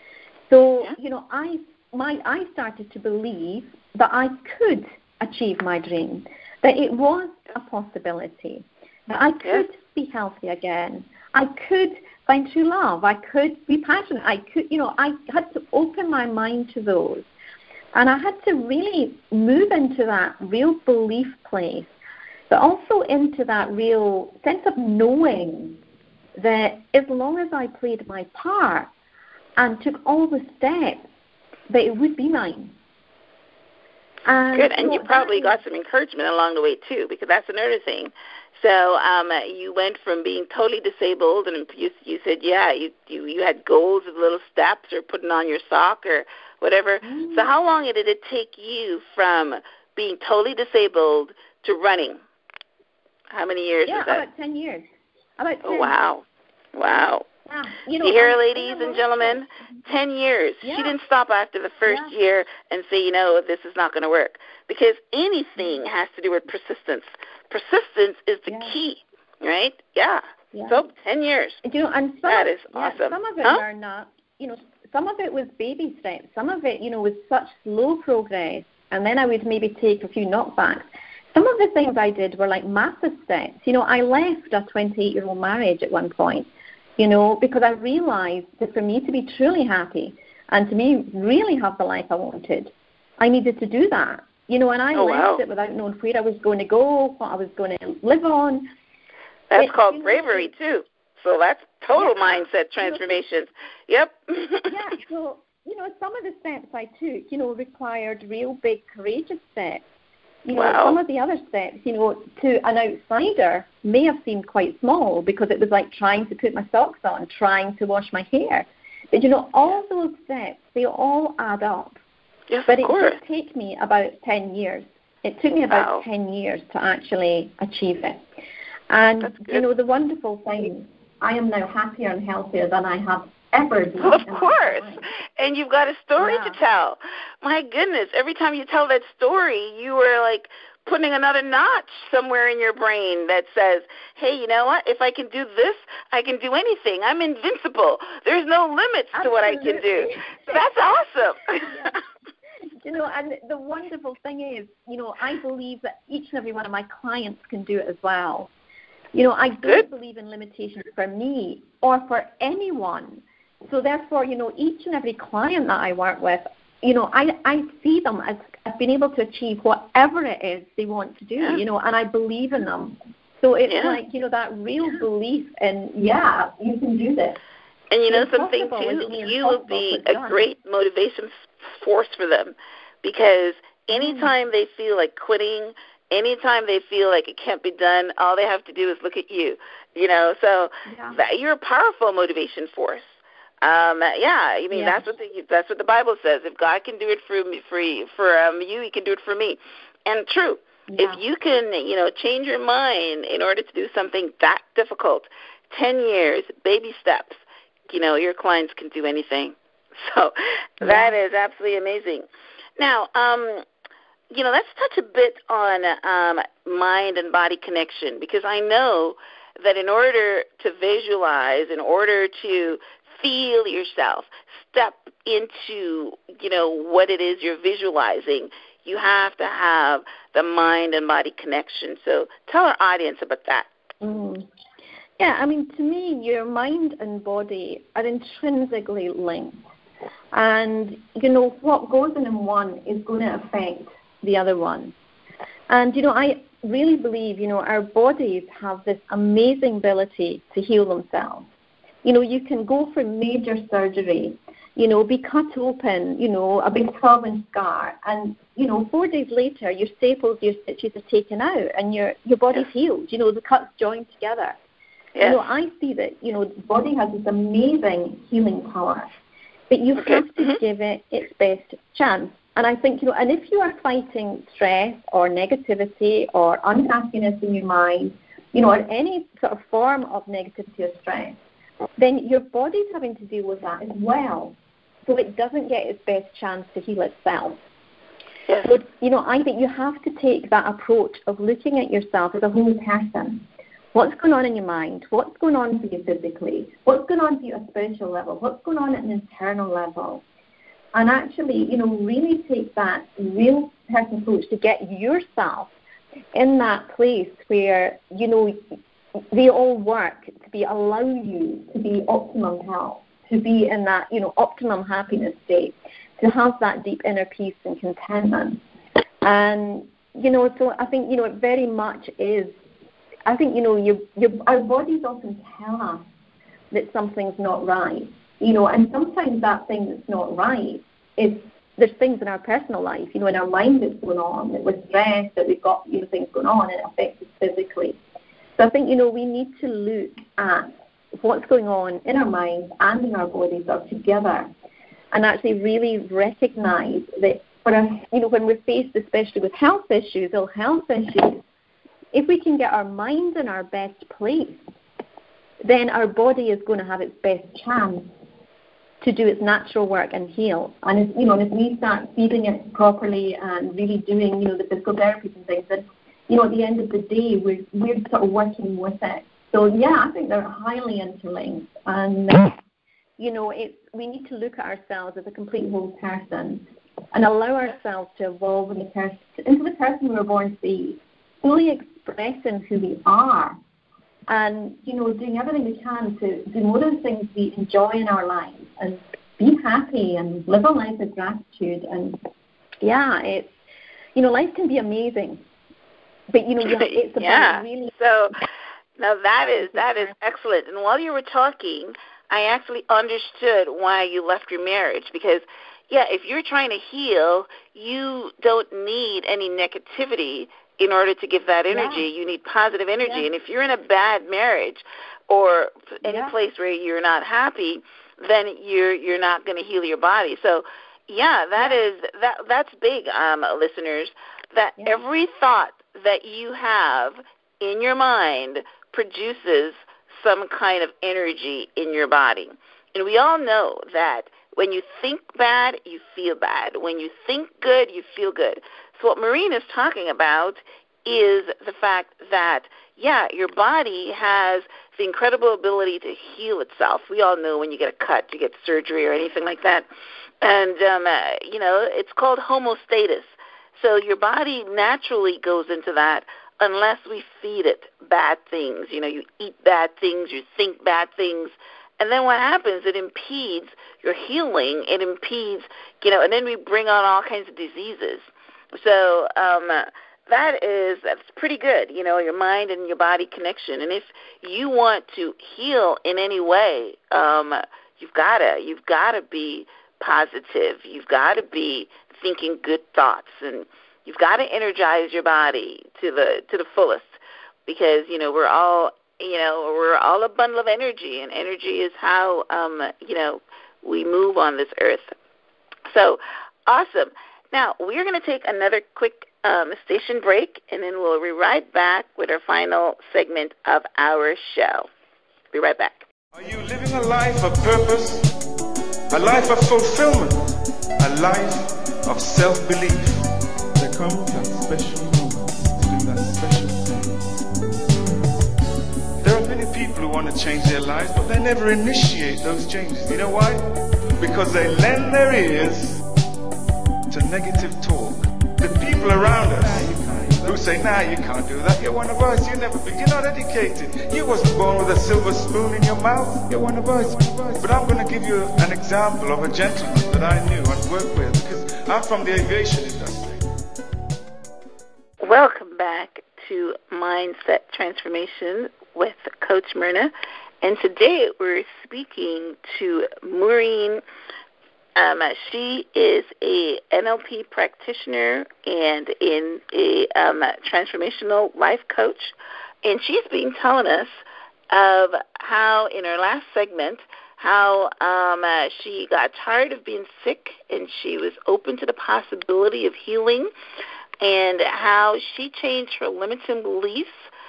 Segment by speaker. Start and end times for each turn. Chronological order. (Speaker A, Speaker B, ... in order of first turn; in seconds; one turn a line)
Speaker A: 0.5-17.3
Speaker A: 17.9-21.9
Speaker A: 22.5-25.8
Speaker A: 26.4-28.9
Speaker A: 29.6-31.0
Speaker A: 31.7-32.7
Speaker A: 34.3-35.6
Speaker B: 34.5-52.2
Speaker A: 47.0-47.5
Speaker B: 53.3-54.2
Speaker A: 53.9-54.9
Speaker A: 55.4-56.0
Speaker B: 55.6-57.3
Speaker A: 57.5-59.4
Speaker B: 58.0-71.6
Speaker A: 60.6-61.0
Speaker A: 61.8-62.1
Speaker A: 68.5-68.7
Speaker A: 70.5-70.8
Speaker A: 71.6-98.7
Speaker B: 72.3-73.6
Speaker B: 95.0-95.4
Speaker B: 99.5-104.7
Speaker A: 99.5-100.5
Speaker A: 101.9-103.1
Speaker A: 104.7-109.8
Speaker A: 110.5-122.0
Speaker B: 110.5-111.0
Speaker B: 122.5-123.2
Speaker A: 122.7-128.2
Speaker B: 125.7-126.0
Speaker A: 128.9-135.0
Speaker B: 129.2-129.6
Speaker B: 134.0-151.9
Speaker A: 136.2-136.6
Speaker A: 149.1-150.6
Speaker A: 151.6-152.0
Speaker A: 152.8-158.5
Speaker A: 159.1-177.4
Speaker B: 173.7-174.0
Speaker B: 177.9-193.1
Speaker A: 178.1-180.4
Speaker A: 183.9-184.3
Speaker A: 190.9-191.2
Speaker B: 193.6-212.3
Speaker A: 194.7-195.0
Speaker A: 200.9-201.2
Speaker A: 210.8-211.2
Speaker B: 212.8-213.6
Speaker B: 214.3-233.7
Speaker A: 234.0-234.4
Speaker A: 235.2-239.6
Speaker A: 240.3-244.9
Speaker A: 245.7-251.5
Speaker A: 252.0-264.6
Speaker B: 265.1-265.4
Speaker A: 265.2-269.1
Speaker A: 269.7-281.4
Speaker B: 270.0-270.6
Speaker A: 282.0-284.6
Speaker A: 285.1-287.6
Speaker A: 288.6-300.2
Speaker A: 300.9-305.7
Speaker A: 306.3-308.6
Speaker A: 309.3-318.6
Speaker A: 319.2-322.5
Speaker A: 323.3-326.0
Speaker A: 326.7-338.0
Speaker A: 338.6-344.5
Speaker A: 345.1-351.4
Speaker A: 352.1-354.6
Speaker A: 355.6-358.1
Speaker A: 359.0-372.6
Speaker A: 373.2-383.6
Speaker A: 384.3-392.2
Speaker A: 392.8-393.5
Speaker A: 394.1-395.4
Speaker A: 396.3-397.9
Speaker B: 396.6-449.9
Speaker A: 399.6-400.1
Speaker A: 411.7-412.1
Speaker A: 413.0-413.3
Speaker A: 416.0-416.3
Speaker B: 450.4-495.1
Speaker B: 495.9-504.9
Speaker B: 505.5-506.0
Speaker C: 506.3-508.3
Speaker C: 509.1-517.3
Speaker C: 519.2-523.6
Speaker C: 524.2-526.0
Speaker C: 527.1-543.4
Speaker B: 545.2-554.0
Speaker B: 555.0-564.1
Speaker B: 564.7-573.5
Speaker B: 574.2-577.1